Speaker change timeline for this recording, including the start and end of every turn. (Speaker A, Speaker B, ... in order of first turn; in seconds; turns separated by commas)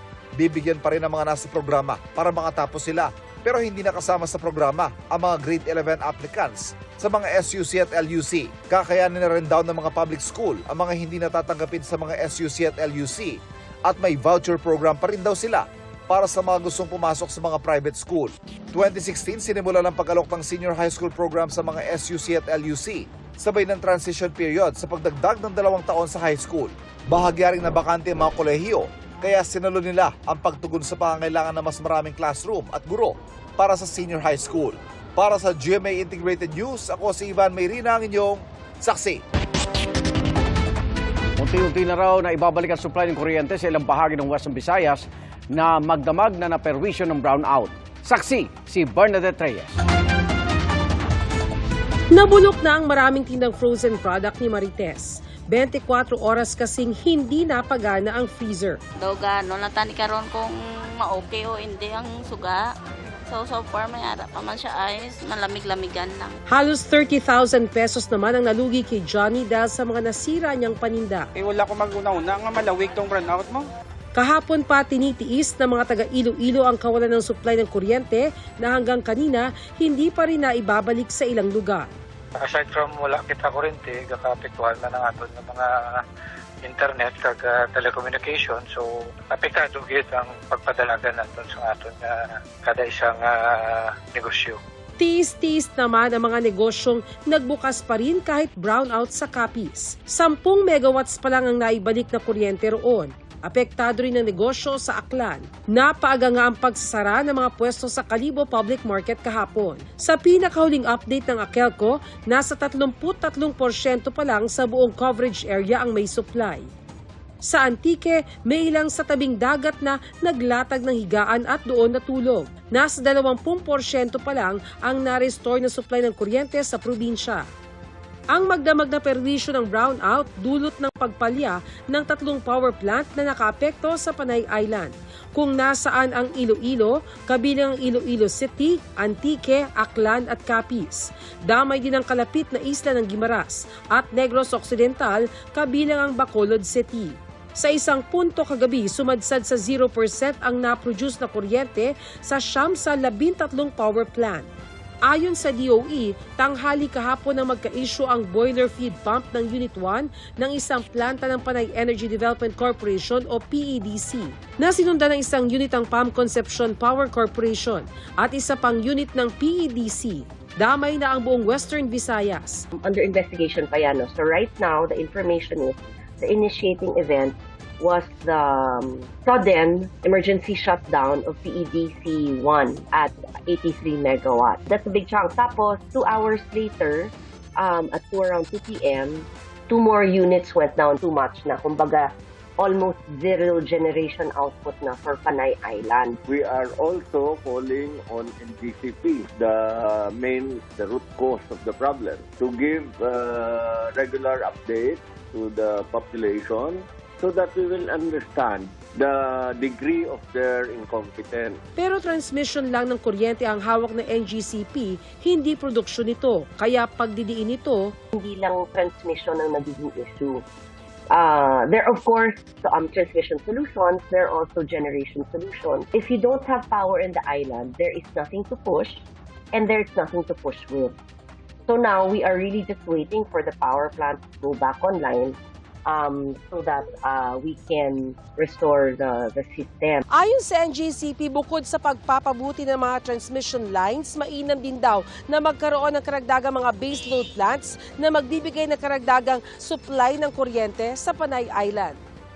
Speaker A: 0.4-39.2, Speaker B: 41.4-49.8, Speaker C: 52.1-58.8, Speaker D: 59.0-62.6, Speaker D: 63.3-66.3, Speaker C: 66.5-71.3, Speaker E: 71.4-73.6, Speaker C: 74.1-81.9, Speaker F: 82.4-86.0, Speaker F: 86.6-94.6, Speaker C: 95.0-116.7, Speaker C: 117.4-127.5, Speaker C: 128.3-154.5, Speaker C: 155.1-172.7, Speaker G: 172.8-196.2, Speaker H: 196.3-211.6, Speaker C: 211.8-217.9, Speaker G: 218.1-220.4, Speaker G: 221.1-230.9, Speaker G: 231.7-240.0, Speaker C: 240.1-252.0